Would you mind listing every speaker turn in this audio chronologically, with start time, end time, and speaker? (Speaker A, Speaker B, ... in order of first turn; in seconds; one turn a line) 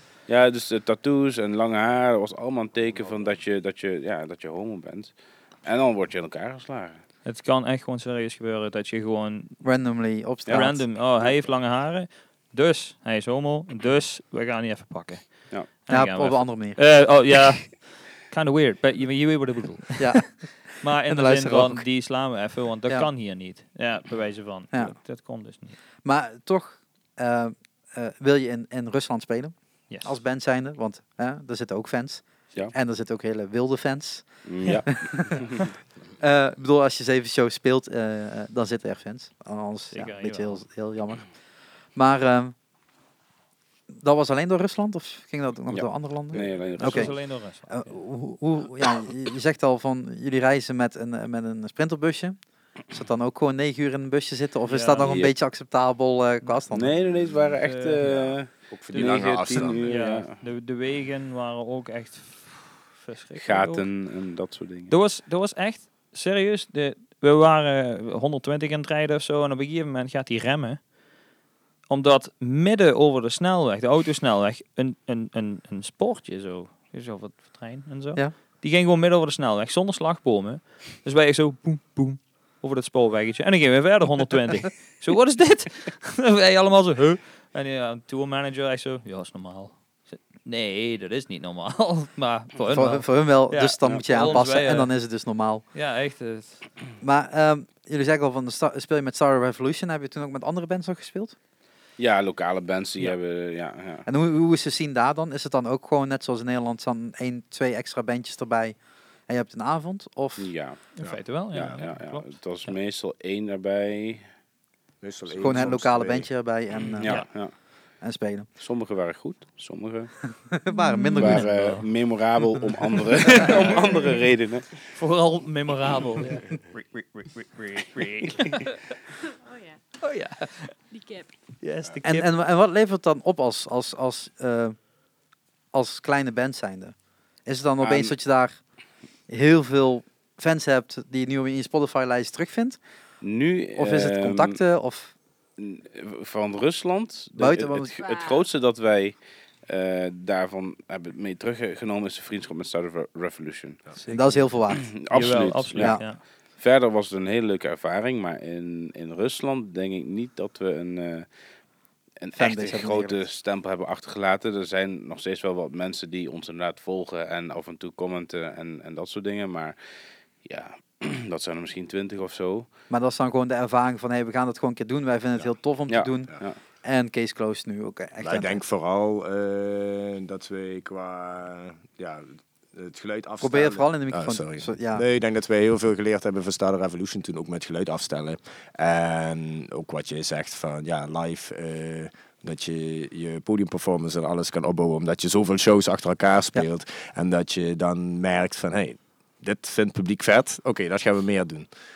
Speaker A: 0.3-7.0
Speaker B: 2.9-3.4
Speaker C: 7.2-9.6
Speaker D: 9.6-10.8
Speaker A: 10.4-11.3
Speaker C: 10.5-25.8
Speaker D: 15.9-16.9
Speaker D: 20.0-21.9
Speaker D: 26.0-35.5
Speaker C: 29.9-30.2
Speaker A: 34.5-35.5
Speaker D: 36.2-41.3
Speaker C: 39.9-40.6
Speaker D: 41.9-42.5
Speaker D: 43.9-56.9
Speaker A: 45.7-47.2
Speaker C: 46.8-48.0
Speaker C: 54.7-55.1
Speaker A: 55.0-55.3
Speaker A: 56.7-60.4
Speaker C: 57.6-58.3
Speaker B: 58.0-59.9
Speaker C: 58.9-63.9
Speaker A: 63.4-64.9
Speaker C: 64.9-70.9
Speaker C: 71.9-94.9
Speaker D: 92.7-95.6
Speaker C: 95.7-96.7
Speaker D: 97.0-101.3
Speaker A: 102.0-104.0
Speaker D: 104.0-108.8
Speaker D: 109.3-110.5
Speaker A: 110.4-110.8
Speaker C: 110.9-112.8
Speaker A: 111.5-114.2
Speaker B: 115.0-116.3
Speaker D: 115.3-117.3
Speaker C: 117.0-117.3
Speaker A: 117.0-117.5
Speaker D: 118.0-118.5
Speaker A: 118.6-120.1
Speaker D: 120.5-121.4
Speaker E: 120.7-121.4
Speaker C: 121.0-121.9
Speaker A: 121.2-124.9
Speaker C: 123.2-124.2
Speaker C: 124.9-128.9
Speaker E: 129.4-129.8
Speaker C: 130.0-130.8
Speaker E: 130.9-131.3
Speaker C: 131.6-132.3
Speaker D: 132.0-134.8
Speaker D: 135.7-138.6
Speaker A: 137.8-138.1
Speaker D: 139.3-142.8
Speaker A: 143.2-144.6
Speaker D: 143.8-145.1
Speaker A: 145.6-153.8
Speaker D: 147.4-147.9
Speaker E: 148.0-148.4
Speaker C: 153.9-156.2
Speaker D: 154.1-154.9
Speaker A: 154.8-161.3
Speaker D: 155.8-156.1
Speaker A: 162.2-169.8
Speaker D: 162.3-163.2
Speaker A: 170.4-172.7
Speaker D: 172.9-178.6
Speaker A: 175.9-176.6
Speaker B: 178.2-201.7
Speaker D: 183.4-185.0